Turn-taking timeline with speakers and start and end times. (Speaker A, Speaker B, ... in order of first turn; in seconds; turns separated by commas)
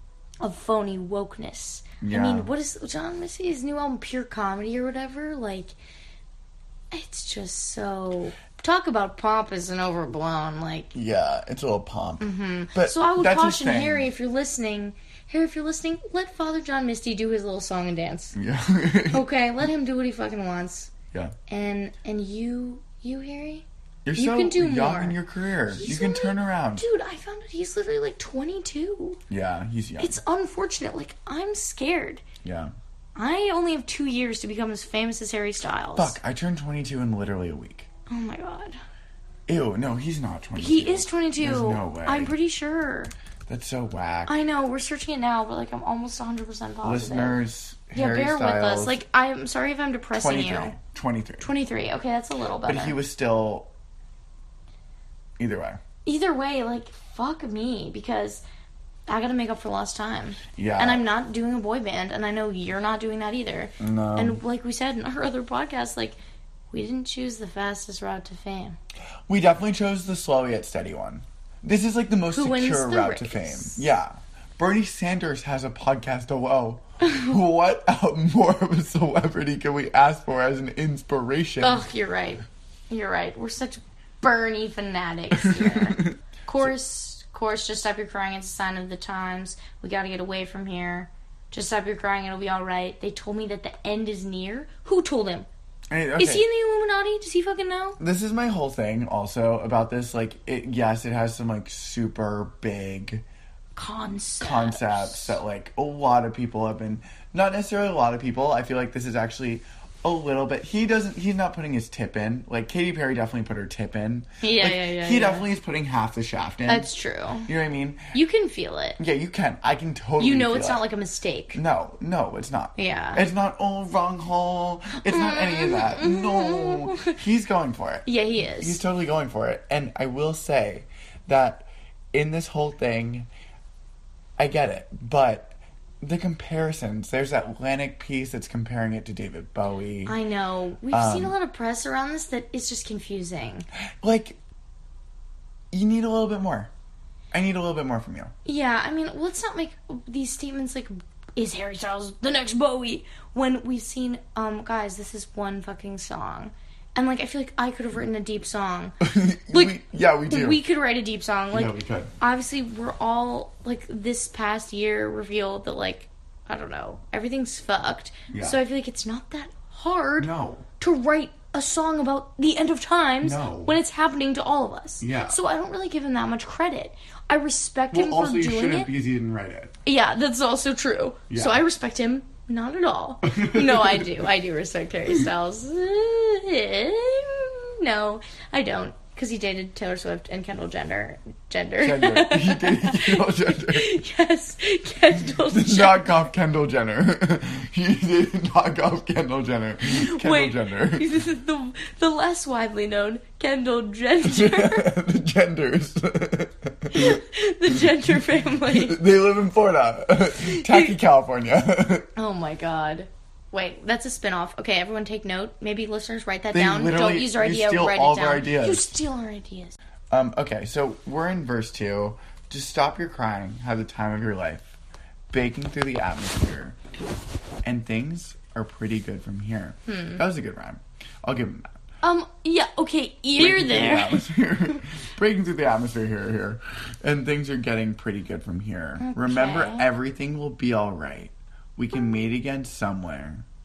Speaker A: 0.4-5.8, Speaker B: 2.0-2.5, Speaker A: 6.9-10.9, Speaker B: 10.9-14.1, Speaker A: 12.2-18.4, Speaker B: 18.3-19.3, Speaker A: 19.1-20.9, Speaker A: 21.5-29.2, Speaker B: 24.1-26.9, Speaker B: 29.3-30.2, Speaker A: 30.0-32.2, Speaker B: 32.4-32.7, Speaker A: 33.2-36.2, Speaker B: 36.0-37.9, Speaker A: 38.1-38.8, Speaker B: 39.5-42.3, Speaker A: 40.6-43.1, Speaker B: 43.5-44.4, Speaker A: 44.3-47.4, Speaker B: 46.8-49.0, Speaker A: 47.9-50.8, Speaker B: 50.1-51.5, Speaker A: 51.4-53.0, Speaker B: 52.6-53.7, Speaker B: 55.4-55.8, Speaker A: 56.0-58.4, Speaker A: 59.1-66.2, Speaker B: 60.5-61.0, Speaker B: 63.8-64.4, Speaker A: 66.7-68.8, Speaker B: 69.3-81.9, Speaker A: 72.3-73.9, Speaker A: 81.6-95.5, Speaker B: 85.4-86.7, Speaker B: 95.9-96.5, Speaker A: 96.2-98.0, Speaker B: 98.0-103.2, Speaker A: 103.8-105.4, Speaker B: 104.4-116.9, Speaker A: 114.4-115.5, Speaker A: 116.7-117.5, Speaker B: 117.5-118.1, Speaker A: 118.1-119.0, Speaker B: 119.0-120.8, Speaker A: 120.2-121.6, Speaker B: 121.5-128.1, Speaker A: 122.8-123.2, Speaker A: 125.0-127.2, Speaker A: 128.1-128.8, Speaker B: 128.6-133.3, Speaker B: 134.4-140.2, Speaker A: 140.1-143.7, Speaker B: 140.9-141.3, Speaker B: 144.0-144.4, Speaker B: 145.7-146.7, Speaker B: 147.3-148.3, Speaker A: 148.4-159.0, Speaker B: 159.0-160.6, Speaker A: 159.5-178.9, Speaker B: 161.5-162.1, Speaker B: 168.3-168.6, Speaker B: 170.2-170.7, Speaker B: 173.2-173.8, Speaker B: 175.0-175.4, Speaker B: 177.9-179.7, Speaker A: 179.8-196.3, Speaker B: 181.3-181.6, Speaker B: 183.3-184.1, Speaker B: 191.8-194.0, Speaker B: 195.3-201.1, Speaker A: 199.9-204.9, Speaker B: 204.2-207.2, Speaker A: 206.9-209.0, Speaker B: 208.7-212.1, Speaker A: 210.3-211.0, Speaker A: 212.2-219.8, Speaker B: 216.5-218.9, Speaker B: 220.1-224.8, Speaker B: 225.3-226.8, Speaker B: 227.6-231.7, Speaker A: 229.9-230.2, Speaker A: 232.0-234.2, Speaker B: 233.4-243.4, Speaker A: 239.0-239.9